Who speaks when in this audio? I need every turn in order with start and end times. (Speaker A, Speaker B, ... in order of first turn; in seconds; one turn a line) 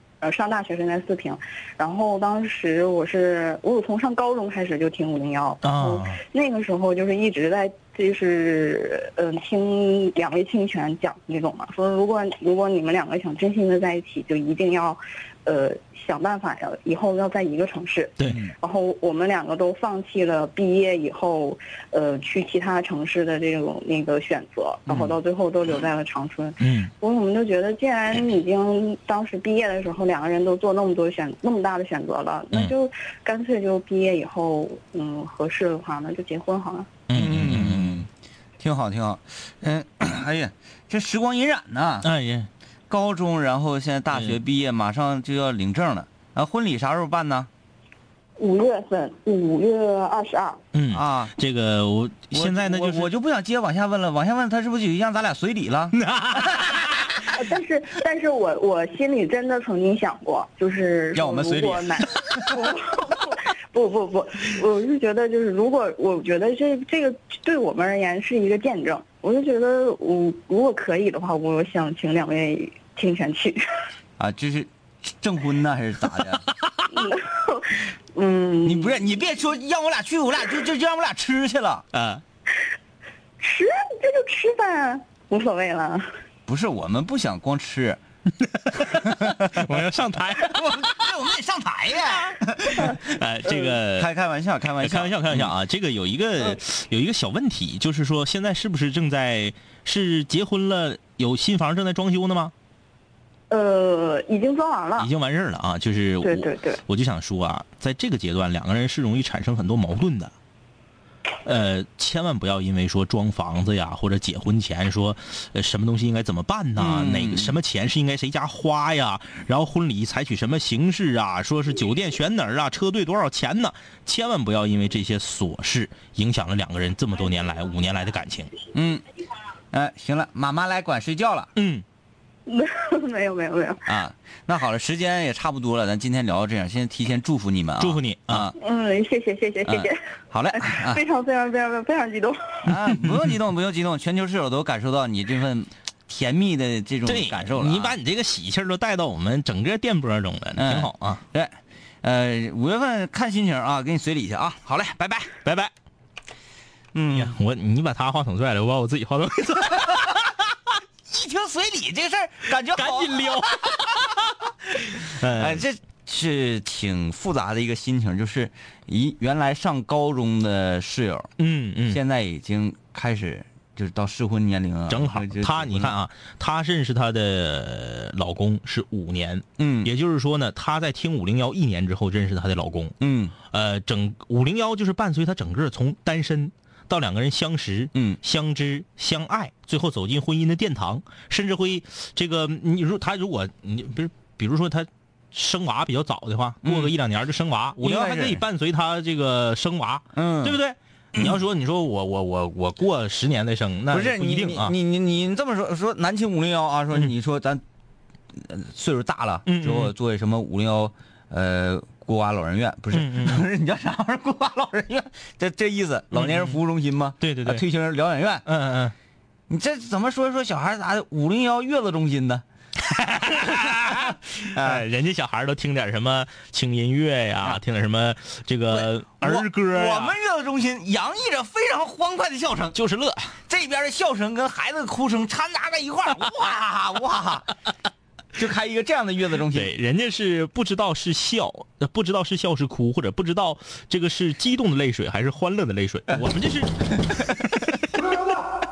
Speaker A: 0.2-36.9
Speaker B: 5.6-6.2
Speaker C: 24.9-25.1
Speaker B: 26.6-26.9
Speaker B: 37.1-38.0
Speaker C: 37.1-38.1
Speaker C: 38.6-42.1
Speaker B: 42.0-42.5
Speaker C: 42.9-47.5
Speaker A: 48.4-50.6
Speaker B: 50.7-53.1
Speaker C: 50.9-51.3
Speaker C: 52.3-56.0
Speaker B: 55.9-57.2
Speaker A: 57.3-73.6
Speaker C: 61.1-62.7
Speaker C: 74.2-76.5
Speaker A: 76.9-79.0
Speaker C: 78.6-81.9
Speaker B: 81.9-82.2
Speaker A: 83.4-86.0
Speaker C: 86.5-88.0
Speaker B: 88.4-91.1
Speaker C: 88.9-89.8
Speaker C: 90.4-93.0
Speaker B: 92.1-94.1
Speaker C: 93.9-95.5
Speaker B: 94.8-102.5
Speaker A: 103.5-105.1
Speaker B: 105.0-110.3
Speaker A: 106.2-106.8
Speaker B: 111.4-128.5
Speaker C: 116.8-117.6
Speaker C: 128.7-129.0
Speaker C: 129.7-131.5
Speaker B: 131.6-131.8
Speaker A: 132.5-133.9
Speaker C: 133.8-138.6
Speaker B: 137.8-138.5
Speaker A: 138.6-140.0
Speaker C: 139.7-141.0
Speaker A: 140.5-142.7
Speaker C: 142.7-148.0
Speaker B: 147.0-151.2
Speaker C: 150.6-155.3
Speaker B: 155.4-155.7
Speaker C: 156.9-157.4
Speaker B: 157.1-160.4
Speaker C: 161.1-164.0
Speaker B: 162.7-164.3
Speaker B: 164.9-165.6
Speaker C: 165.1-171.3
Speaker B: 171.4-172.0
Speaker C: 171.9-175.9
Speaker B: 174.9-204.7
Speaker C: 179.6-179.9
Speaker C: 183.0-183.3
Speaker C: 187.9-188.2
Speaker C: 196.6-196.9
Speaker C: 197.8-198.4
Speaker C: 200.1-200.6
Speaker C: 203.9-207.6
Speaker C: 208.3-218.5
Speaker B: 209.4-209.9
Speaker B: 212.9-213.4
Speaker B: 216.1-216.6
Speaker B: 217.2-217.6
Speaker B: 218.4-218.9
Speaker C: 219.5-222.4
Speaker B: 222.9-230.2
Speaker C: 223.1-224.8
Speaker C: 228.7-232.8
Speaker B: 232.7-233.3
Speaker C: 233.5-237.5
Speaker C: 238.3-239.7
Speaker B: 239.5-248.4